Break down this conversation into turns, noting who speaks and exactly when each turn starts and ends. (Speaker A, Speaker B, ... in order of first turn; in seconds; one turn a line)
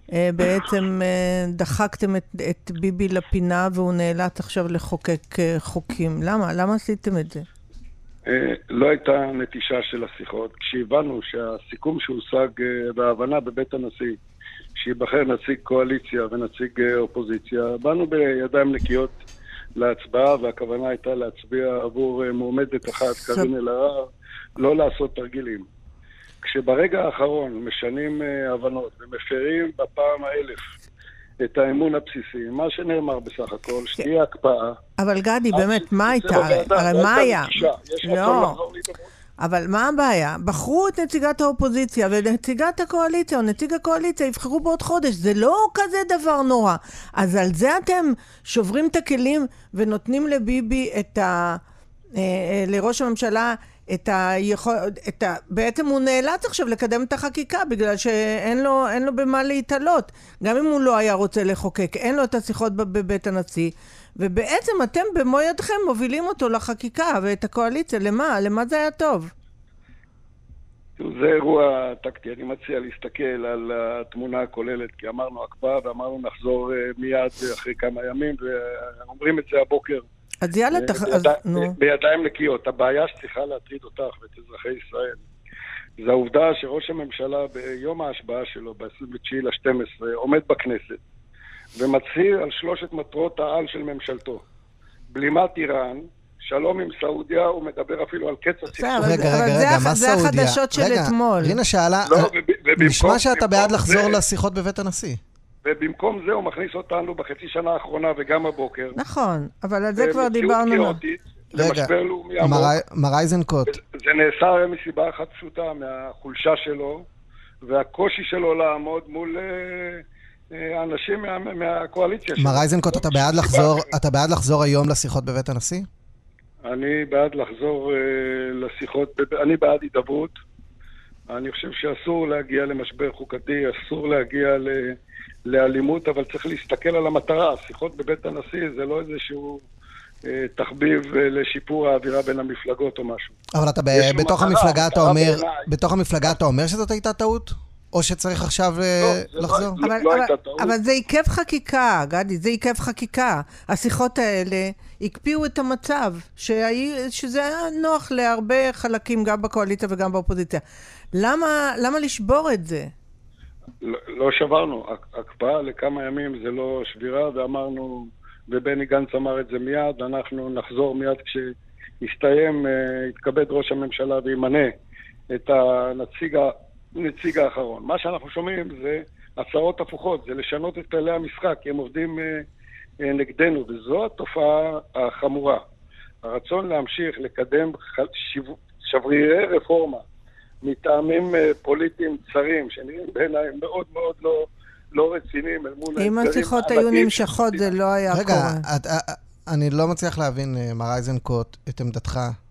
Speaker A: 0.1-7.5
Speaker B: 8.3-14.2
Speaker B: 14.8-19.2
Speaker B: 19.8-25.7
Speaker B: 26.4-30.7
Speaker B: 31.4-34.8
Speaker A: 35.0-38.6
Speaker B: 35.5-39.0
Speaker A: 39.4-51.6
Speaker A: 52.2-69.3
Speaker B: 71.0-80.0
Speaker A: 80.4-81.7
Speaker B: 80.7-85.2
Speaker B: 86.0-91.0
Speaker B: 91.8-94.4
Speaker B: 95.1-99.3
Speaker A: 98.8-101.6
Speaker C: 99.0-105.2
Speaker B: 102.1-104.2
Speaker B: 105.7-109.0
Speaker A: 109.0-111.0
Speaker B: 110.0-112.7
Speaker C: 111.5-113.8
Speaker B: 113.7-117.0
Speaker B: 117.6-123.9
Speaker C: 122.4-125.9
Speaker B: 126.7-130.3
Speaker B: 131.3-139.6
Speaker B: 140.3-143.3
Speaker C: 143.5-149.8
Speaker B: 143.9-145.7
Speaker B: 149.0-150.8
Speaker A: 149.8-160.6
Speaker A: 161.1-162.9
Speaker B: 163.8-174.7
Speaker B: 175.3-182.5
Speaker B: 183.0-185.6
Speaker B: 186.2-190.0
Speaker B: 190.6-197.7
Speaker A: 196.0-198.6
Speaker C: 198.1-202.4